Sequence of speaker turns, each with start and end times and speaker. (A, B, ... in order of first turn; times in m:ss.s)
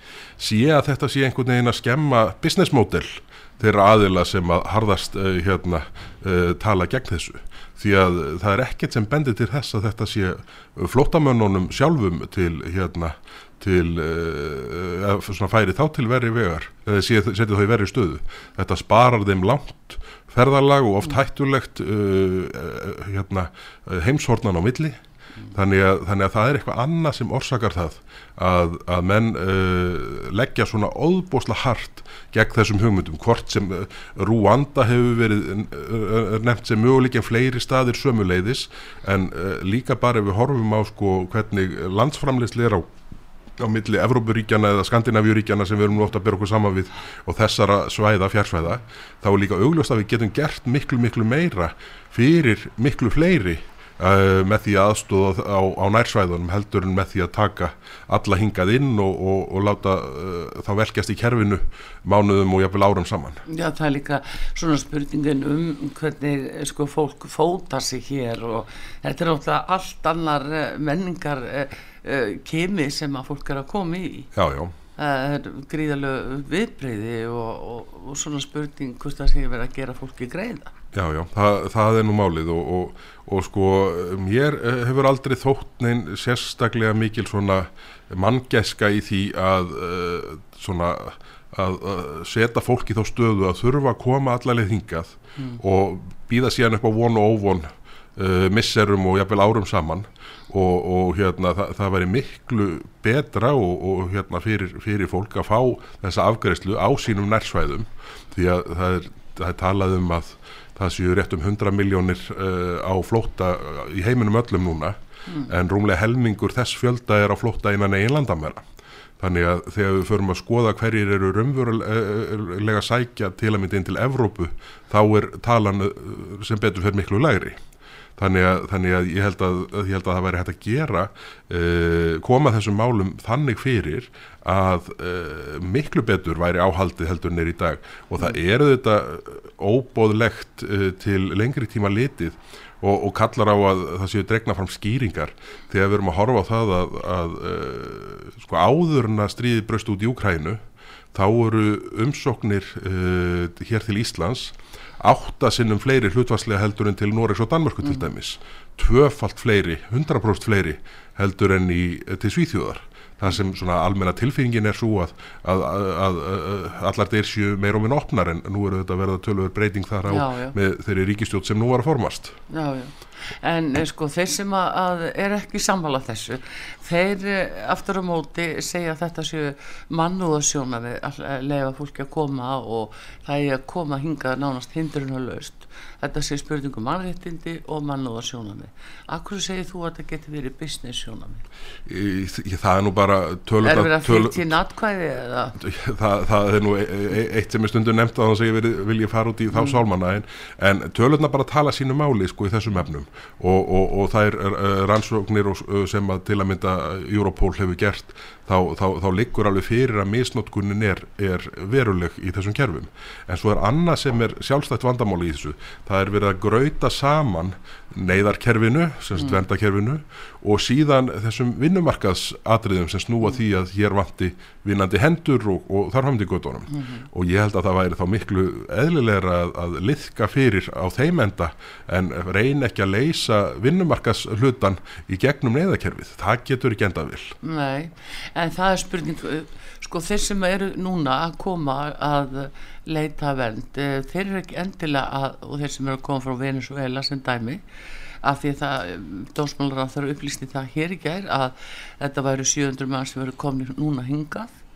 0:00.4-0:25.0 A
0:25.5-0:42.9 A
0:43.6-1:03.4 A
1:03.4-1:14.3 B
1:14.3-1:14.7 A
1:15.0-1:20.7 B
1:20.9-1:58.6 A
1:55.3-1:55.5 B
1:59.2-2:07.6 A
2:08.2-2:30.6 A
2:31.1-2:52.4 A
2:50.1-2:50.5 B
2:52.5-3:11.4 B
3:11.8-3:14.5 A
3:13.6-3:15.6 B
3:15.6-3:57.3 A
3:46.7-3:47.1 B
3:57.4-4:07.6 B
4:08.2-4:14.6 B